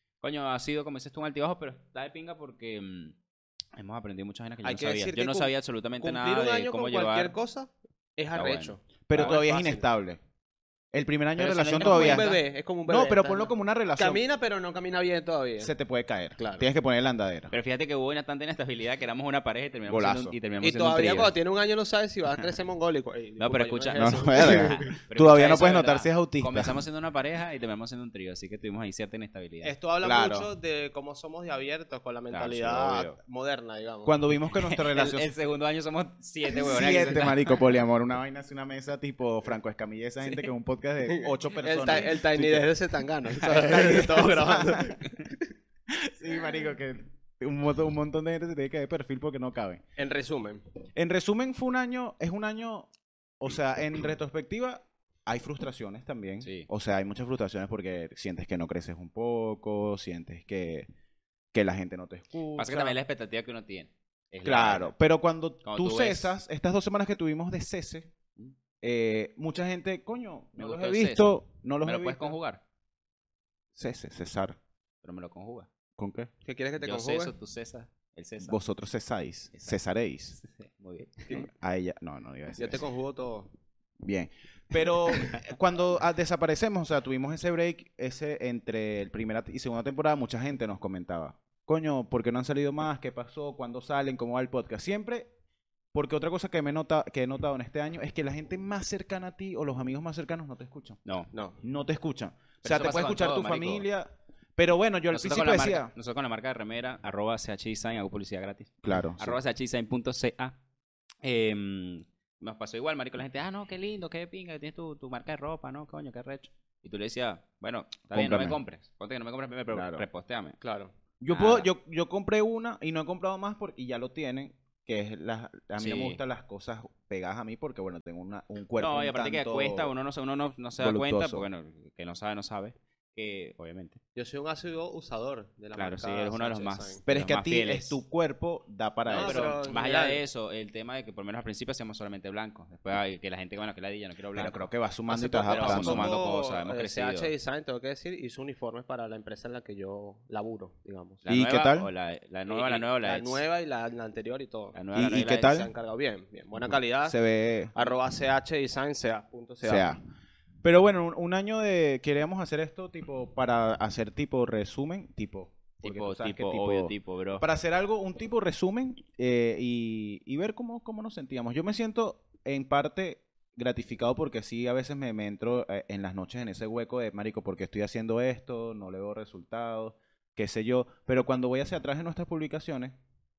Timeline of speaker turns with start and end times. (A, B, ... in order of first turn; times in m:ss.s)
0:00.2-0:03.1 A
0:03.8-0:07.3 A
0:04.6-0:09.9 B
0:08.3-0:09.3 A
0:09.1-0:10.2 C
0:10.9-0:12.3 C
0:11.4-0:15.7 B
0:11.7-0:12.4 A
0:12.9-0:14.2 C
0:15.6-0:17.5 C
0:16.4-0:16.7 B
0:17.5-0:21.3 A
0:19.9-0:20.4 C
0:20.6-0:24.9 B
0:23.4-0:29.7 A
0:24.0-0:26.8 C
0:29.6-0:34.1 B
0:30.0-0:30.5 C
0:32.3-0:33.2 A
0:34.0-0:35.3 C
0:34.5-0:37.7 A
0:36.5-0:42.7 C
0:41.1-0:45.5 B
0:43.4-0:44.1 A
0:43.4-0:45.0 C
0:45.9-0:49.8 C
0:50.0-0:50.6 B
0:51.0-0:52.9 C
0:53.4-1:00.9 C
1:01.5-1:03.0 C
1:02.6-1:04.9 A
1:04.4-1:08.1 C
1:05.6-1:06.4 A
1:08.8-1:12.3 C
1:10.6-1:12.6 A
1:13.7-1:14.6 C
1:15.0-1:15.7 A
1:16.0-1:16.3 C
1:16.4-1:17.3 B
1:16.8-1:18.6 A
1:18.4-1:20.4 C
1:20.4-1:21.3 A
1:21.3-1:22.8 C
1:22.6-1:23.5 B
1:24.0-1:35.3 C
1:35.9-1:41.0 C
1:41.6-1:45.9 C
1:42.6-1:43.8 A
1:45.1-1:50.6 A
1:48.8-1:49.4 C
1:51.2-2:00.6 A
1:58.1-1:58.6 C
1:59.7-2:00.0 C
2:00.6-2:00.9 B
2:01.2-2:09.9 C
2:01.3-2:01.7 A
2:05.8-2:06.2 A
2:08.8-2:14.0 A
2:10.8-2:11.4 C
2:14.2-2:17.0 B
2:15.7-2:18.0 A
2:17.1-2:19.6 C
2:19.0-2:20.2 B
2:19.2-2:24.7 A
2:24.3-2:26.1 C
2:25.1-2:31.2 B
2:25.4-2:27.3 A
2:31.2-2:33.4 A
2:31.3-2:31.9 C
2:32.5-2:37.2 B
2:34.7-2:35.5 A
2:34.9-2:35.7 C
2:36.6-2:37.7 C
2:37.7-2:39.9 B
2:39.6-2:40.0 C
2:40.6-3:03.0 C
2:45.8-2:47.4 A